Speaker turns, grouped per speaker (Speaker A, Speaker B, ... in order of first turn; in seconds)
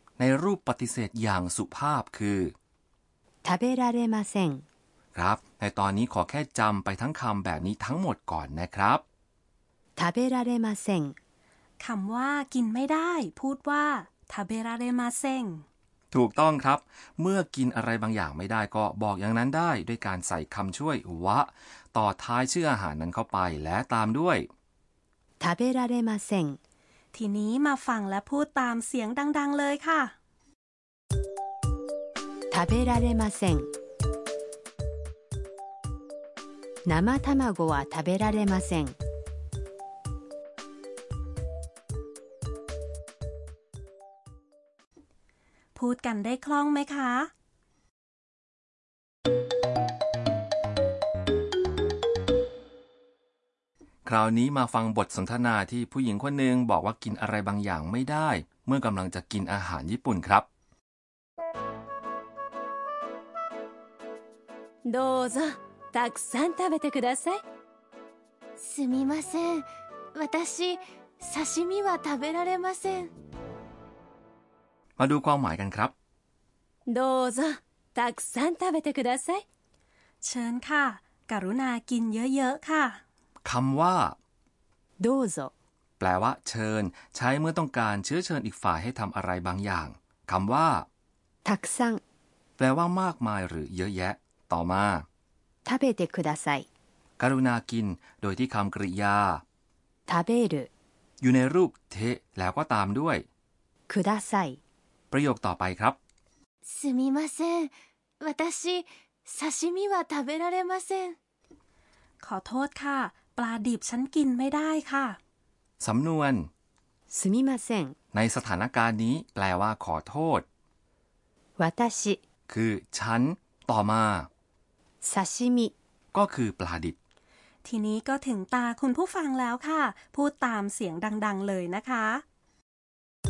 Speaker A: 0.2-2.5, 5.1-9.0, 16.1-24.5, 54.0-60.5, 75.0-75.9, 83.4-84.2, 86.0-90.9, 92.6-95.0, 97.2-99.4, 101.2-103.2, 105.1-106.0, 115.8-116.5, 118.1-120.4, 122.5-124.3, 126.1-127.0
Speaker B: 3.4-4.6, 10.0-11.2, 25.4-26.6, 32.5-33.7, 36.9-39.0, 85.0-85.5, 91.4-92.0, 95.6-96.7, 100.1-100.7, 103.9-104.6, 117.1-117.9, 121.6-122.2, 125.0-125.7
Speaker C: 11.8-15.6, 27.1-30.1, 45.7-47.3, 80.2-83.0, 112.2-115.2, 127.6-132.2
Speaker D: 64.8-67.4, 76.9-79.4
Speaker E: 68.6-73.1, 106.7-111.2